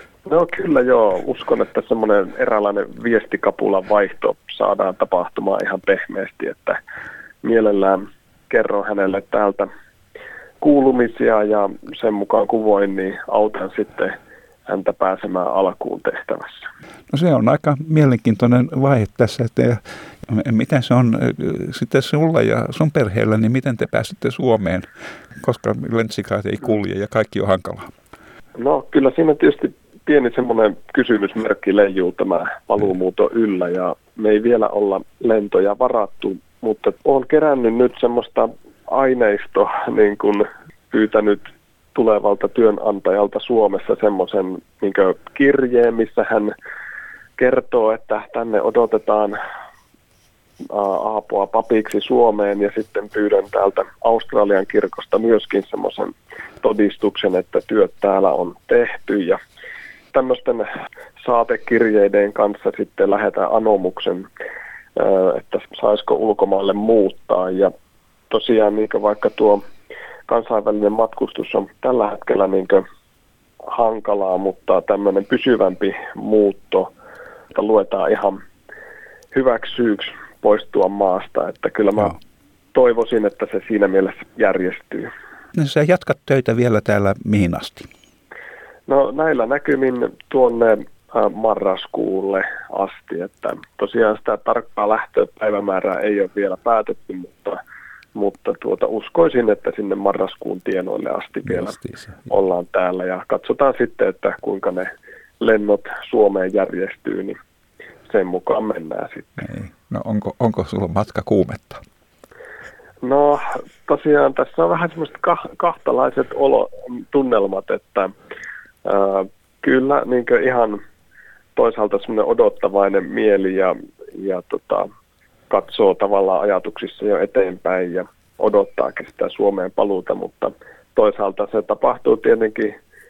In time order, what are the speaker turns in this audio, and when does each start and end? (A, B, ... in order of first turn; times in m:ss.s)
0:00.2-0:06.8 A
0:07.4-0:09.7 A
0:10.6-0:14.1 A
0:14.7-0:16.7 A
0:17.1-0:24.9 B
0:25.4-0:27.9 B
0:28.6-0:46.5 A
0:47.4-0:49.4 A
0:50.7-0:59.4 A
1:00.1-1:04.3 A
1:05.0-1:07.7 A
1:08.3-1:09.6 A
1:10.3-1:12.8 A
1:13.7-1:16.9 A
1:17.5-1:18.4 A
1:19.3-1:22.2 A
1:22.7-1:25.1 A
1:25.6-1:27.9 B
1:28.9-1:37.6 A
1:38.2-1:47.4 A
1:41.8-1:42.2 B
1:48.1-1:49.4 A
1:49.4-1:51.8 B
1:53.0-1:58.1 A
1:58.8-2:00.8 A
2:01.6-2:04.9 A
2:05.5-2:12.7 A